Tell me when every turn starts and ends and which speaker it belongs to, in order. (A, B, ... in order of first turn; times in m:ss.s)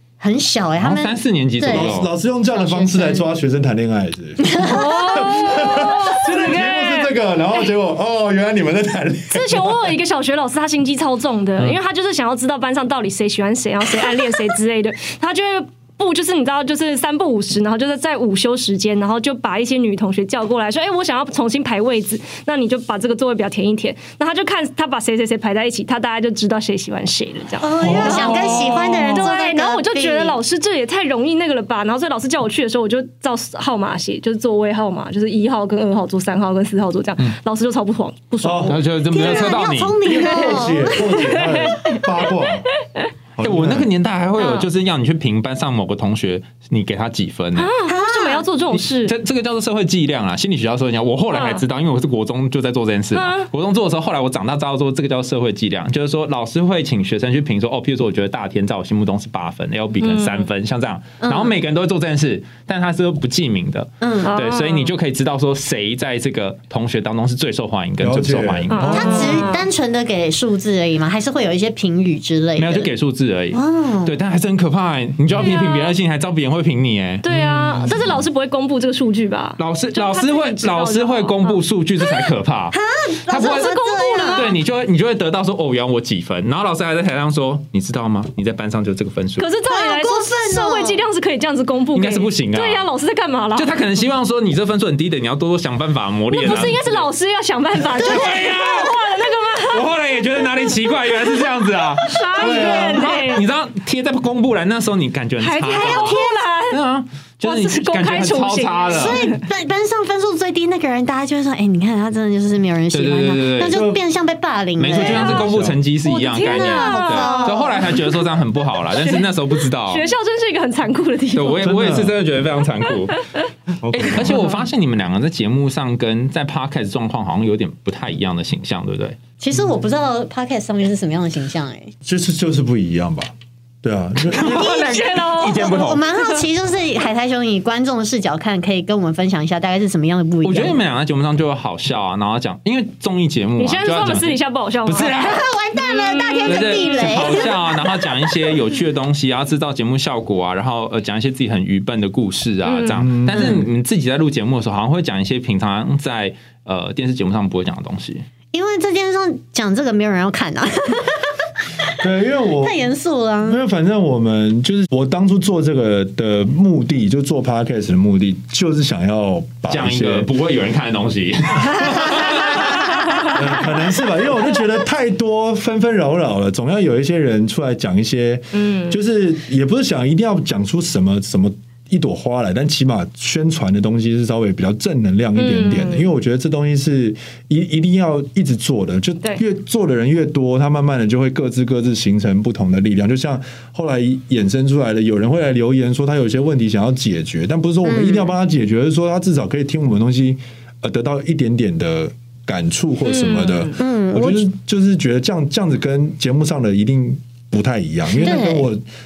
0:00.2-0:02.0 A
0:00.8-0:02.1 B
0:01.6-0:09.9 C
0:02.6-0:03.2 A
0:04.4-0:05.3 A
0:04.6-0:07.1 D
0:09.3-0:39.5 D
0:27.6-0:30.4 A
0:27.8-0:28.3 C
0:27.8-0:29.2 B
0:38.4-0:38.8 C
0:38.6-0:40.0 B
0:39.1-0:41.1 A
0:40.0-0:42.7 C
0:40.2-0:42.0 D
0:43.4-0:43.9 C
0:43.4-0:47.7 B
0:44.4-0:44.7 D
0:47.6-0:49.2 D
0:47.9-0:48.4 A
0:48.7-1:09.3 B
0:51.3-0:51.6 D
0:53.1-0:53.5 D
1:00.0-1:00.4 D
1:01.2-1:01.6 A
1:04.0-1:04.4 A
1:04.2-1:04.9 D
1:08.0-1:09.4 C
1:08.7-1:09.6 D
1:08.9-1:12.9 A
1:12.6-1:17.3 B
1:13.5-1:14.2 A
1:15.4-1:16.0 D
1:17.2-1:22.3 D
1:17.3-1:18.1 C
1:19.6-1:22.8 B
1:22.7-1:24.5 A
1:23.3-1:29.5 B
1:23.3-1:24.5 D
1:29.4-1:33.7 D
1:29.6-1:31.0 A
1:31.9-1:32.9 B
1:33.6-1:37.1 B
1:36.3-1:39.9 D
1:37.8-1:39.1 B
1:39.6-1:49.3 B
1:42.0-1:43.4 D
1:42.4-1:43.1 C
1:42.6-1:42.9 A
1:45.4-1:46.8 D
1:45.7-1:46.4 A
1:47.4-1:49.4 D
1:48.9-1:55.5 A
1:52.9-1:53.9 B
1:53.7-1:54.0 C
1:54.8-2:00.1 B
1:55.0-1:55.5 D
1:55.2-1:55.8 C
1:56.0-1:58.2 D
1:56.4-1:57.8 A
1:59.0-1:59.3 D
1:59.8-2:01.9 D
2:01.3-2:03.2 B
2:01.6-2:02.2 C
2:03.8-2:04.5 C
2:03.9-2:09.2 B
2:09.4-2:11.9 A
2:12.0-2:13.3 C
2:13.8-2:14.8 C
2:14.3-2:16.0 B
2:14.4-2:16.0 D
2:14.6-2:20.8 A
2:20.4-2:25.5 B
2:23.6-2:25.3 D
2:25.1-2:27.8 A
2:25.8-2:27.5 D
2:26.5-2:38.3 B
2:32.7-2:33.0 D
2:33.0-2:33.7 C
2:38.5-2:41.2 A
2:42.0-2:42.8 C
2:42.6-2:43.6 A
2:43.4-2:50.3 C
2:49.7-2:52.9 B
2:53.3-3:28.8 C
2:58.6-2:59.0 D
3:05.4-3:06.1 D
3:17.8-3:18.3 A
3:23.1-3:23.8 D
3:23.8-3:24.5 A
3:28.2-3:28.7 A